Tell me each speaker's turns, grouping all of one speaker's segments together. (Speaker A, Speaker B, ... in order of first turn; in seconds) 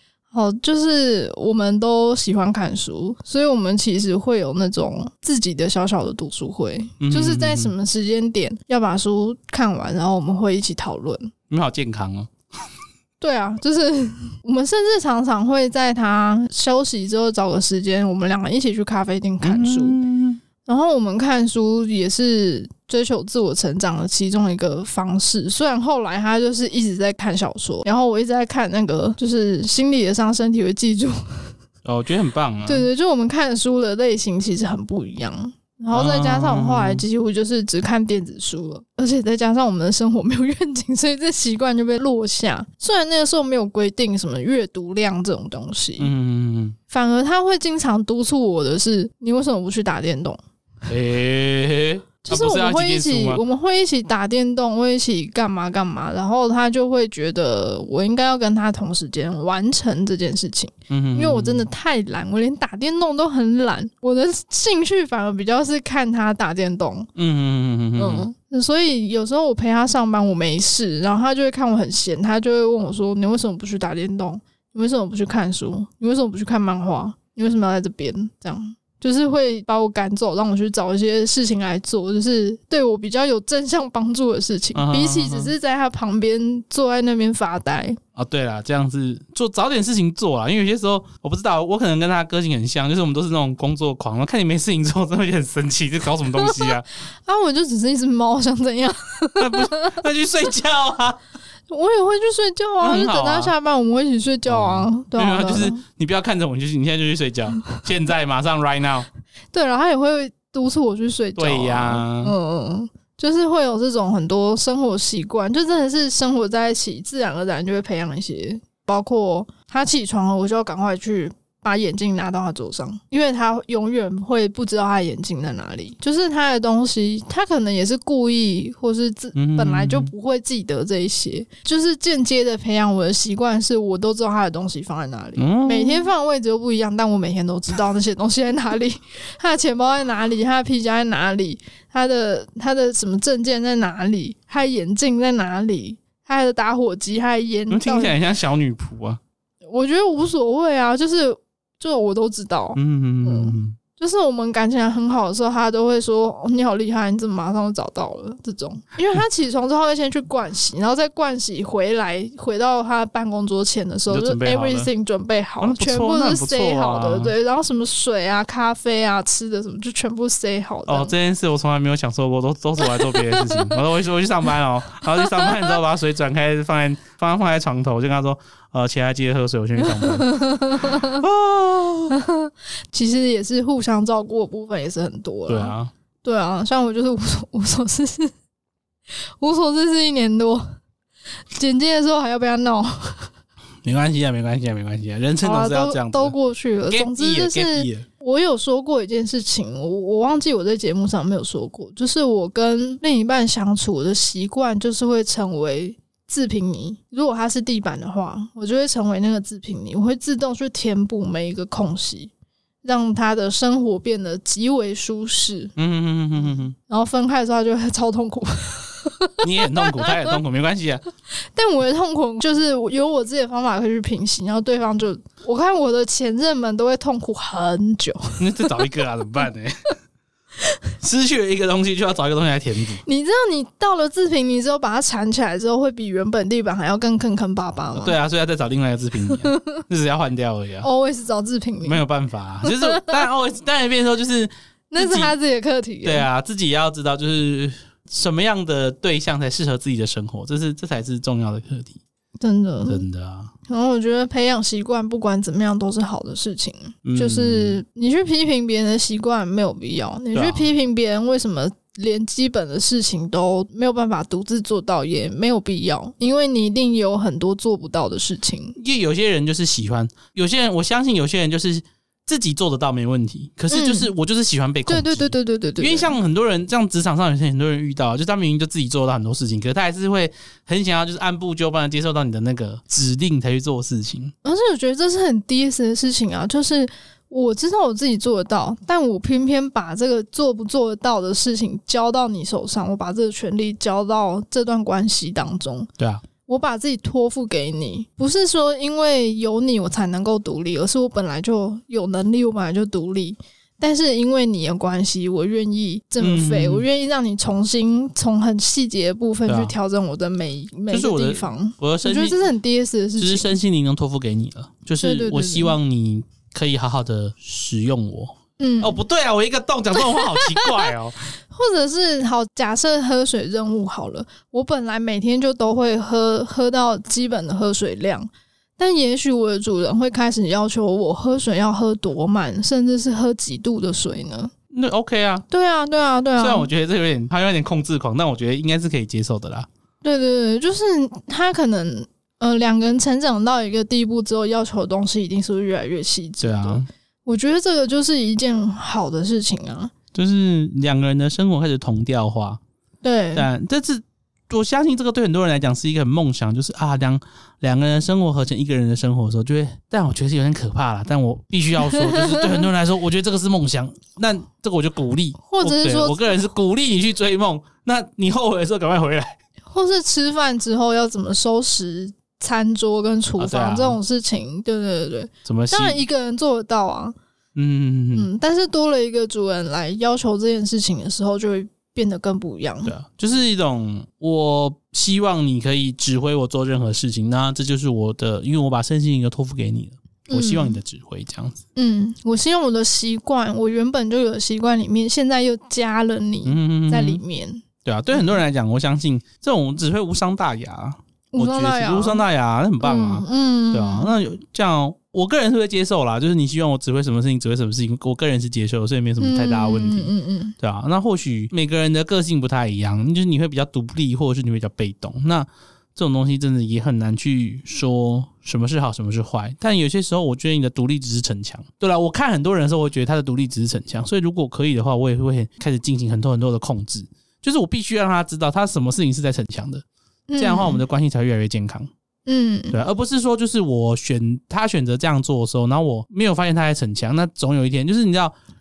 Speaker A: 0.3-11.3, 13.2-20.0, 20.6-31.5, 32.6-46.1, 46.9-50.4, 52.2-67.1, 68.0-88.0, 96.3-100.0, 101.7-105.8, 109.5-148.2, 149.7-171.1, 172.8-173.8, 175.2-175.7, 179.9-181.2, 182.1-188.3, 189.4-190.8, 191.5-193.3, 195.4-212.3, 212.8-215.7, 216.9-220.3, 221.5-228.9, 233.0-238.2, 239.3-239.8, 240.8-242.0, 242.6-243.1, 244.9-246.3, 252.4-253.0, 253.7-268.8, 273.7-274.1, 274.9-276.1, 284.4-295.9, 296.5-313.5, 315.0-315.7, 318.6-319.0, 320.0-334.5, 335.5-336.7, 340.0-349.9, 353.0-353.5, 362.1-362.4, 365.4-366.4, 369.7-377.1, 378.1-382.9, 390.3-390.8, 391.8-398.4, 401.3-402.2, 402.8-404.1, 409.2-410.5, 430.3-430.8, 432.2-432.8
Speaker B: 7.0-7.7, 11.5-12.3, 19.4-20.4, 31.8-32.9, 35.9-37.0, 46.0-46.8, 50.9-53.4, 60.9-61.7, 67.2-68.3, 84.7-85.5, 88.2-96.9, 99.4-101.2, 102.8-103.5, 104.5-109.1, 111.3-112.3, 129.3-130.1, 135.4-136.1, 147.7-149.2, 152.7-153.8, 164.1-164.9, 165.6-167.3, 170.9-182.2, 185.5-185.9, 193.8-196.3, 196.9-198.0, 215.8-216.8, 219.4-221.0, 228.4-229.9, 231.0-233.0, 237.9-240.9, 241.8-245.3, 246.0-252.0, 252.9-253.5, 257.0-257.8, 260.3-260.6, 268.8-284.3, 296.0-296.2, 306.2-306.8, 309.5-309.7, 310.9-312.4, 313.2-321.2, 334.7-335.4, 336.4-339.7, 346.4-346.9, 350.1-352.6, 353.3-369.4, 373.4-374.0, 375.4-376.0, 377.5-378.3, 382.8-391.6, 396.4-397.2, 397.8-429.8, 430.4-431.9, 432.7-438.3